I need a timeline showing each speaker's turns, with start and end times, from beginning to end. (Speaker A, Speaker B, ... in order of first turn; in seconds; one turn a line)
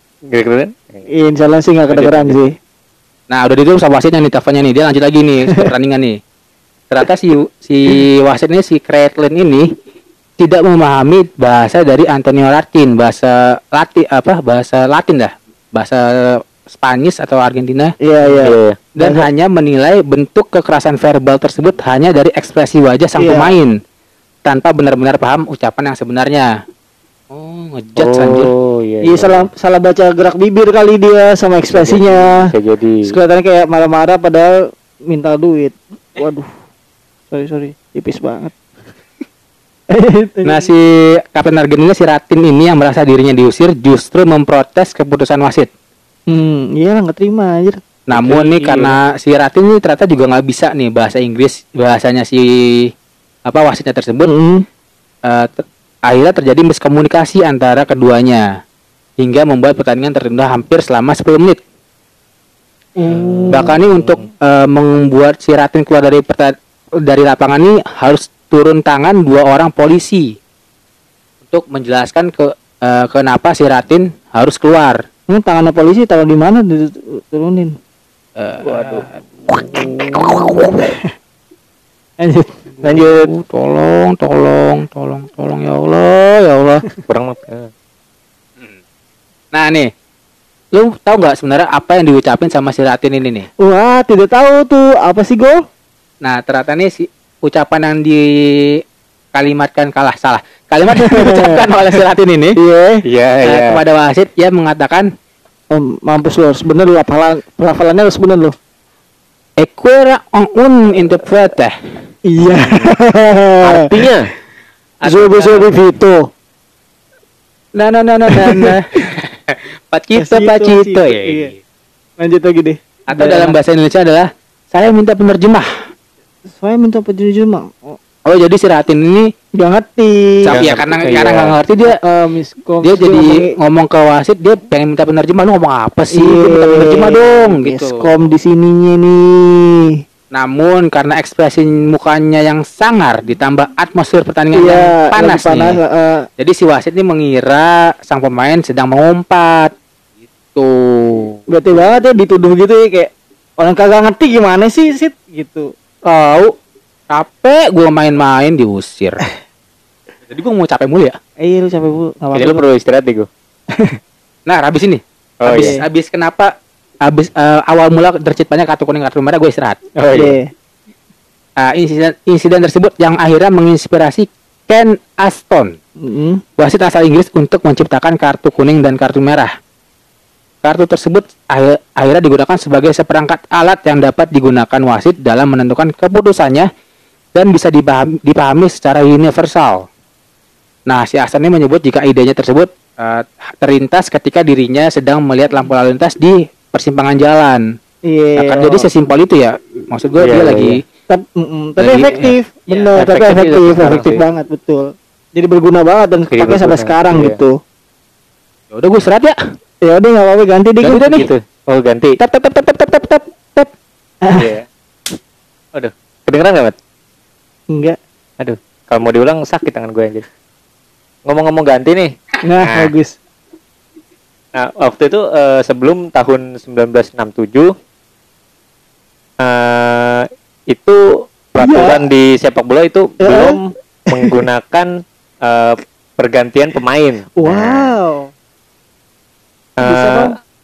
Speaker A: 0.3-1.1
Speaker B: 1.1-2.5
Speaker A: 1.9-2.4
Speaker C: 3.3-6.2
Speaker C: 6.9-9.7
Speaker C: 10.4-18.4
Speaker B: 18.0-19.3
Speaker A: 18.4-18.8
Speaker C: 19.0-23.7
Speaker B: 23.2-23.5
Speaker C: 24.5-26.5
Speaker C: 27.3-28.5
Speaker A: 28.0-29.5
Speaker B: 29.0-32.5
Speaker A: 31.7-33.1
Speaker B: 33.1-36.5
Speaker B: 37.3-38.6
Speaker B: 39.9-40.7
Speaker C: 40.5-45.7
Speaker B: 46.3-49.0
Speaker C: 48.1-52.9
Speaker C: 53.5-54.3
Speaker B: 54.2-54.6
Speaker C: 55.3-58.4
Speaker C: 59.2-61.6
Speaker B: 63.0-63.8
Speaker C: 63.5-70.3
Speaker C: 71.5-75.0
Speaker B: 75.3-77.8
Speaker C: 78.4-80.8
Speaker B: 78.7-81.1
Speaker B: 82.2-82.6
Speaker C: 82.8-86.8
Speaker A: 82.8-83.3
Speaker A: 87.1-87.7
Speaker C: 89.5-89.9
Speaker C: 90.7-93.5
Speaker B: 93.6-95.6
Speaker C: 96.2-98.8
Speaker C: 99.3-102.6
Speaker B: 101.0-101.6
Speaker B: 102.6-103.0
Speaker A: 103.0-103.8
Speaker C: 103.4-105.1
Speaker B: 105.7-108.5
Speaker C: 109.6-111.8
Speaker B: 112.3-113.9
Speaker A: 113.6-114.3
Speaker A: 115.0-115.7
Speaker B: 115.0-116.3
Speaker C: 117.8-121.6
Speaker B: 118.3-118.8
Speaker B: 120.2-121.5
Speaker B: 122.2-123.6
Speaker C: 123.1-125.7
Speaker B: 126.5-128.0
Speaker C: 128.3-129.3
Speaker B: 129.6-130.6
Speaker C: 130.4-132.0
Speaker A: 130.5-131.6
Speaker B: 131.8-133.6
Speaker C: 132.8-138.1
Speaker B: 136.1-140.0
Speaker C: 140.3-145.8
Speaker B: 144.5-146.3
Speaker C: 146.4-149.7
Speaker C: 150.6-151.4
Speaker B: 151.5-156.5
Speaker C: 157.1-159.2
Speaker C: 160.3-161.2
Speaker B: 161.4-162.6
Speaker A: 162.3-163.3
Speaker C: 164.5-166.5
Speaker A: 165.4-165.7
Speaker B: 165.5-165.8
Speaker C: 167.1-169.8
Speaker A: 170.0-170.4
Speaker B: 170.1-170.5
Speaker C: 171.6-175.8
Speaker B: 176.0-176.4
Speaker C: 176.6-179.5
Speaker C: 180.6-186.7
Speaker C: 187.3-189.9
Speaker C: 190.9-197.6
Speaker B: 198.1-198.9
Speaker C: 198.4-200.8
Speaker A: 200.2-200.8
Speaker B: 201.1-207.6
Speaker C: 201.8-202.9
Speaker A: 203.0-204.2
Speaker A: 206.3-207.4
Speaker C: 208.7-209.4
Speaker B: 209.8-211.3
Speaker A: 210.9-212.2
Speaker B: 212.2-213.6
Speaker B: 214.2-214.5
Speaker A: 214.3-214.7
Speaker A: 215.8-216.8
Speaker B: 217.7-218.0
Speaker A: 218.4-220.2
Speaker A: 221.3-222.9
Speaker B: 222.4-223.2
Speaker A: 224.6-227.7
Speaker A: 229.4-231.0
Speaker A: 231.5-233.6
Speaker B: 231.6-232.0
Speaker B: 233.2-234.4
Speaker A: 234.1-234.9
Speaker A: 235.4-237.9
Speaker B: 237.4-238.3
Speaker A: 239.8-240.3
Speaker B: 239.8-240.3